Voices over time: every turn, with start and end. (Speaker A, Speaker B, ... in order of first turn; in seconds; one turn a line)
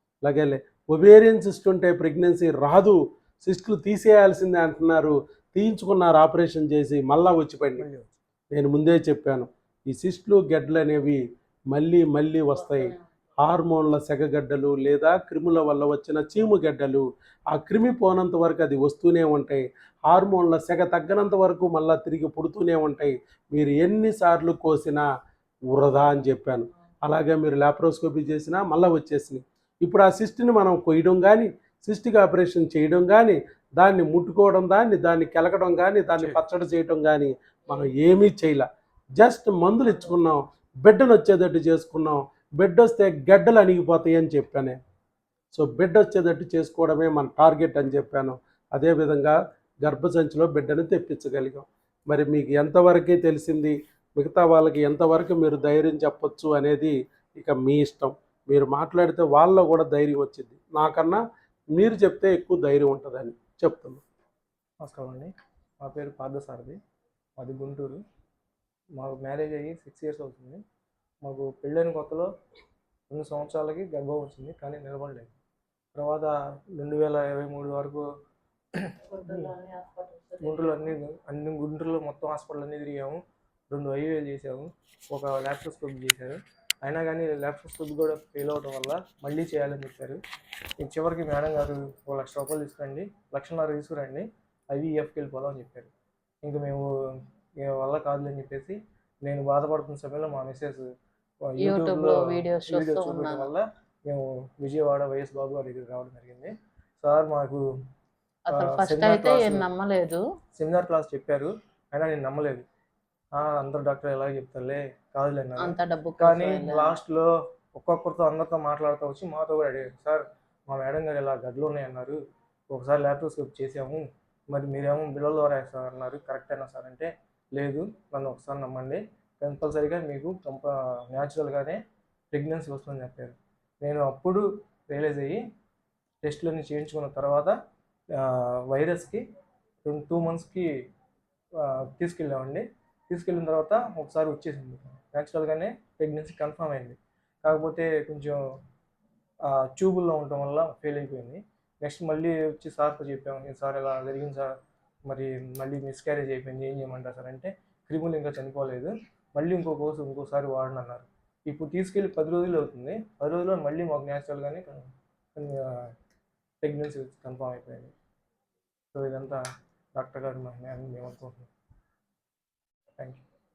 Speaker A: 0.2-7.8
Speaker B: 7.8-8.1
Speaker A: 8.5-11.2
Speaker A: 11.7-25.0
Speaker A: 25.7-38.7
Speaker B: 36.2-36.4
Speaker A: 39.2-44.8
Speaker A: 45.5-61.2
Speaker A: 61.7-64.0
Speaker B: 64.8-66.8
Speaker B: 67.4-68.0
Speaker B: 69.0-70.6
Speaker B: 71.2-72.3
Speaker B: 73.1-75.3
Speaker B: 75.9-78.0
Speaker B: 78.7-79.5
Speaker C: 79.2-80.7
Speaker B: 80.4-90.2
Speaker B: 90.8-95.9
Speaker B: 96.4-100.8
Speaker B: 101.5-107.6
Speaker C: 101.6-103.5
Speaker C: 108.5-110.2
Speaker B: 108.5-109.7
Speaker B: 110.6-112.6
Speaker B: 113.3-122.2
Speaker C: 115.5-116.9
Speaker B: 122.7-131.8
Speaker B: 132.3-135.4
Speaker B: 136.2-137.5
Speaker B: 138.2-139.2
Speaker B: 139.8-140.7
Speaker B: 141.6-148.4
Speaker B: 149.4-154.6
Speaker B: 155.1-165.9
Speaker B: 166.6-167.9
Speaker B: 168.9-169.4
Speaker B: 169.9-171.5